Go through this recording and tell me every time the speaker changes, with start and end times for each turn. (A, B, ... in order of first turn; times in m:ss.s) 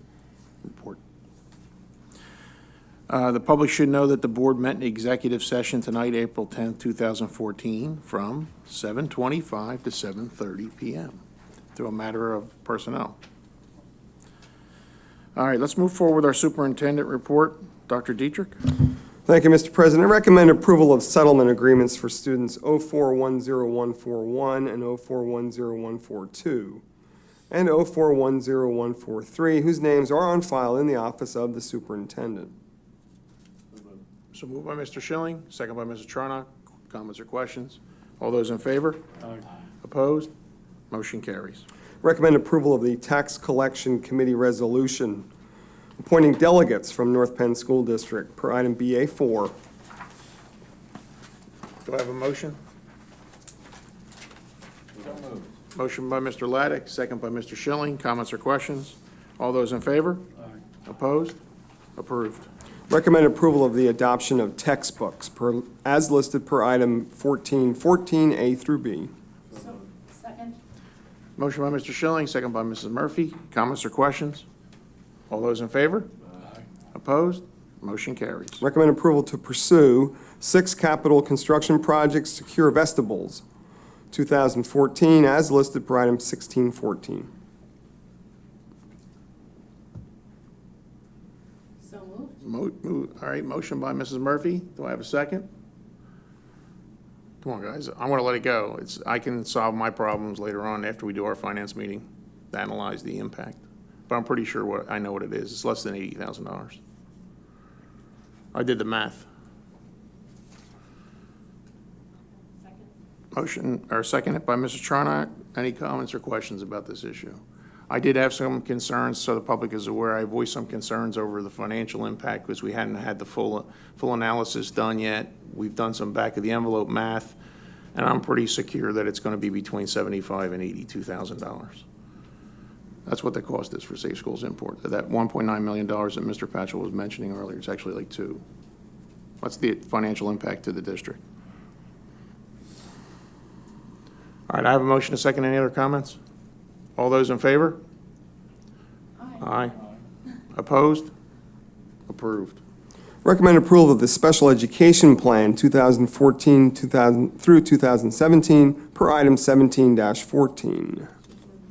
0:00.6-0:01.0 A
0:03.1-0:11.2 A
0:11.7-0:13.2 A
0:15.3-0:18.7 A
0:19.3-0:26.8 B
0:27.5-0:32.5 B
0:34.3-0:39.1 A
0:39.8-0:40.3 A
0:40.9-0:41.6 A
0:42.0-0:45.2 B
0:46.0-0:49.5 B
0:51.8-0:52.6 A
0:55.0-0:55.5 C
0:55.7-1:00.2 A
1:00.8-1:01.4 A
1:02.0-1:02.5 A
1:02.9-1:09.1 B
1:09.5-1:10.6 C
1:11.4-1:14.4 A
1:15.3-1:16.1 A
1:16.9-1:18.6 A
1:18.6-1:23.4 B
1:24.1-1:27.3 B
1:31.8-1:32.4 C
1:32.4-1:35.5 A
1:37.4-1:46.8 A
1:48.5-1:49.3 A
1:52.6-1:52.9 C
1:53.3-2:07.4 A
2:07.9-2:11.8 A
2:13.0-2:18.4 A
2:19.4-2:21.2 A
2:24.5-2:26.2 A
2:27.0-2:27.8 A
2:29.4-2:29.8 A
2:30.5-2:31.1 A
2:32.1-2:32.6 A
2:33.2-2:41.1 B